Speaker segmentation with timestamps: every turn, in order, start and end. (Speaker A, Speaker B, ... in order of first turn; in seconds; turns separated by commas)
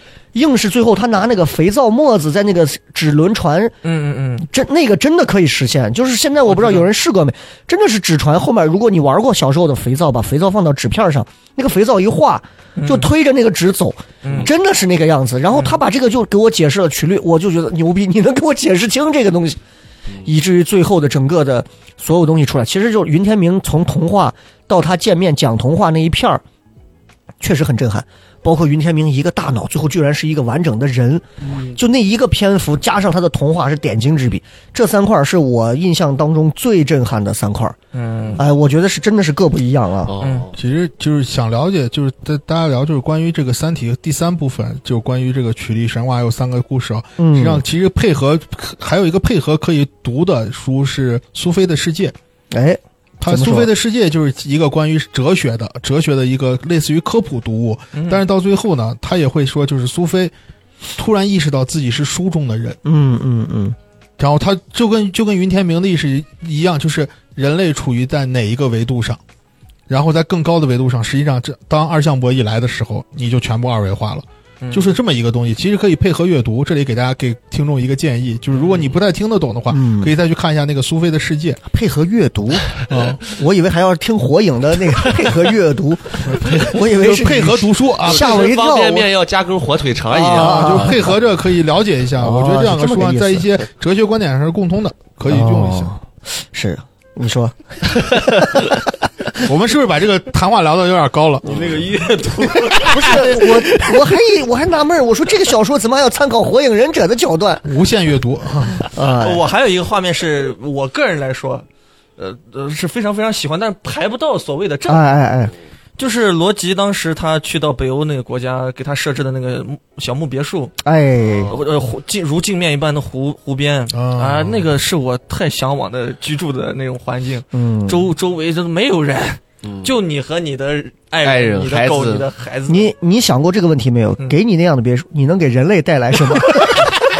Speaker A: 0.3-3.8, Speaker B: 3.8-4.5, Speaker A: 4.5-19.6, Speaker B: 6.5-6.9, Speaker B: 12.8-13.1, Speaker B: 14.2-14.5, Speaker B: 15.5-15.8, Speaker A: 20.2-26.4, Speaker A: 27.4-37.8, Speaker B: 37.9-38.4, Speaker A: 38.4-40.1, Speaker C: 40.1-40.6, Speaker B: 40.2-40.5, Speaker D: 40.6-52.1, Speaker A: 47.2-47.6, Speaker A: 52.5-53.7, Speaker D: 53.2-60.3, Speaker B: 57.9-58.2, Speaker D: 61.0-62.8, Speaker A: 62.9-63.8, Speaker D: 64.2-69.2, Speaker D: 69.9-81.6, Speaker B: 74.6-75.0, Speaker B: 78.5-78.9, Speaker A: 79.7-80.1, Speaker A: 81.7-89.1, Speaker D: 82.9-83.2, Speaker D: 86.3-88.4, Speaker C: 86.5-86.7, Speaker C: 88.0-91.1, Speaker A: 90.1-91.1, Speaker D: 90.3-95.9, Speaker A: 92.2-93.5, Speaker A: 95.3-98.8, Speaker D: 99.5-101.8, Speaker B: 101.4-103.8, Speaker D: 102.4-103.5, Speaker A: 102.9-107.7, Speaker D: 107.7-108.9, Speaker A: 108.9-109.5, Speaker B: 109.1-111.7, Speaker B: 112.2-115.0, Speaker A: 114.9-115.5, Speaker B: 116.0-120.8, Speaker A: 120.8-121.6, Speaker B: 121.5-132.9, Speaker D: 123.9-124.7, Speaker A: 127.5-128.1, Speaker C: 129.6-129.9, Speaker C: 131.2-132.3, Speaker A: 132.7-136.9